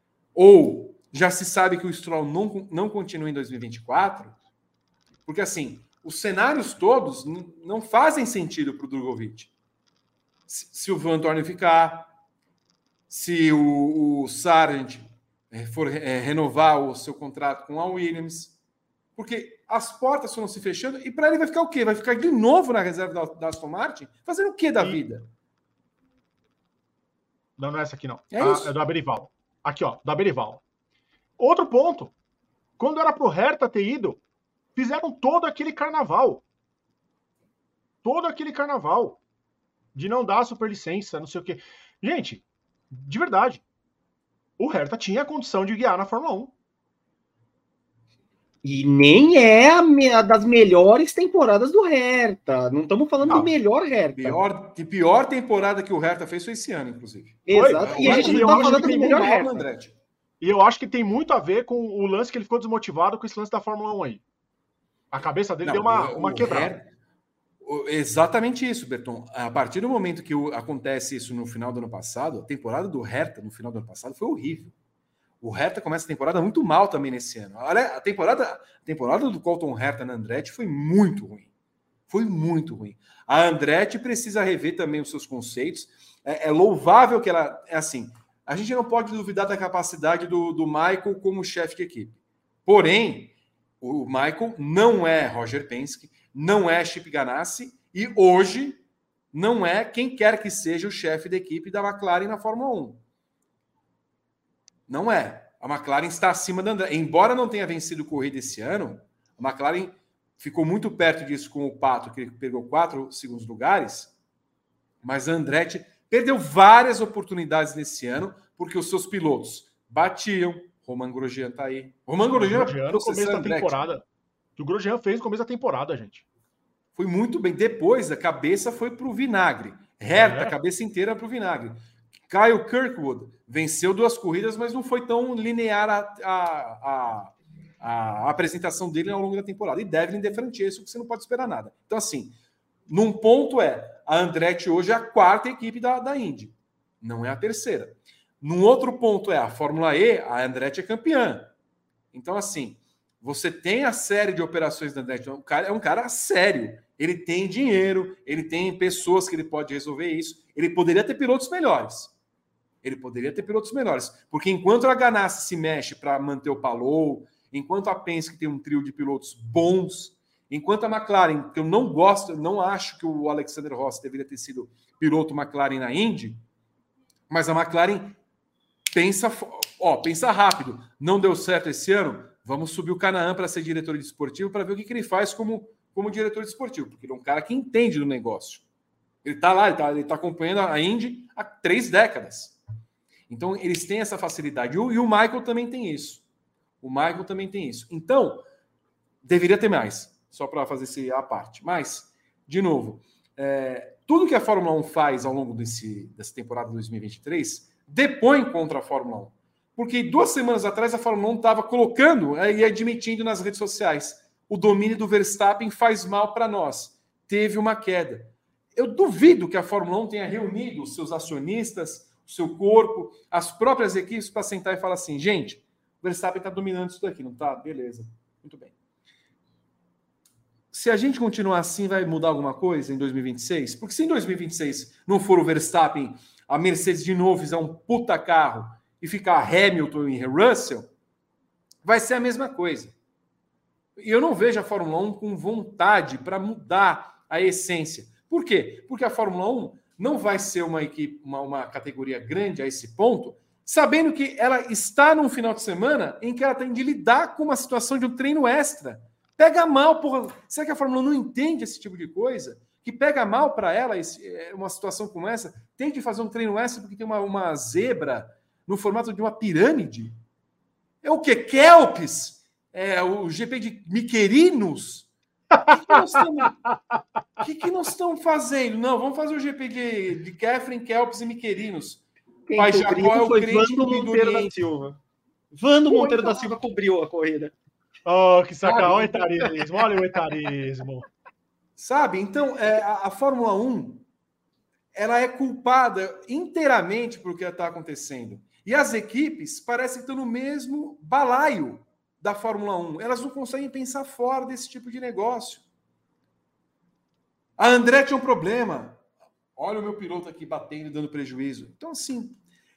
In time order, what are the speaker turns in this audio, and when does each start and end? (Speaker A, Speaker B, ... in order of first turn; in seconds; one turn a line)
Speaker A: 0.3-4.3
Speaker A: 5.3-9.5
Speaker A: 10.5-12.1
Speaker A: 13.1-18.6
Speaker A: 19.2-25.3
Speaker B: 27.6-30.6
Speaker A: 28.3-28.7
Speaker B: 31.4-32.1
Speaker B: 32.8-34.2
Speaker B: 34.8-36.4
Speaker B: 38.0-39.2
Speaker B: 40.0-43.6
Speaker B: 44.6-46.5
Speaker C: 48.6-54.4
Speaker B: 53.2-53.5
Speaker A: 54.2-60.0
Speaker C: 57.5-59.6
Speaker B: 57.5-59.1
Speaker B: 60.4-64.2
Speaker B: 65.1-66.7
Speaker A: 65.6-66.9
Speaker A: 67.6-74.7
Speaker A: 75.4-81.5
Speaker A: 82.1-98.8
Speaker A: 99.3-103.0
Speaker A: 104.9-114.1
Speaker A: 115.0-123.8
Speaker B: 122.3-124.0
Speaker B: 124.6-126.2
Speaker A: 127.0-131.8
Speaker B: 130.2-130.6
Speaker A: 132.3-142.3
Speaker A: 142.9-151.5
Speaker A: 152.1-162.1
Speaker A: 162.8-176.4
Speaker A: 177.3-178.2
Speaker A: 178.9-188.6
Speaker A: 189.2-192.6
Speaker A: 193.3-196.2
Speaker A: 196.8-198.5
Speaker A: 199.2-228.7
Speaker A: 230.7-240.9
Speaker A: 241.8-242.9
Speaker A: 244.0-270.1
Speaker A: 271.0-275.1
Speaker B: 275.6-276.2
Speaker A: 275.6-276.6
Speaker A: 277.4-282.0
Speaker C: 282.5-285.0
Speaker A: 282.6-284.6
Speaker C: 285.5-287.5
Speaker B: 286.0-286.4
Speaker B: 288.1-291.1
Speaker A: 288.6-289.3
Speaker A: 291.8-294.1
Speaker A: 294.9-305.6
Speaker A: 307.6-309.0
Speaker A: 309.6-312.4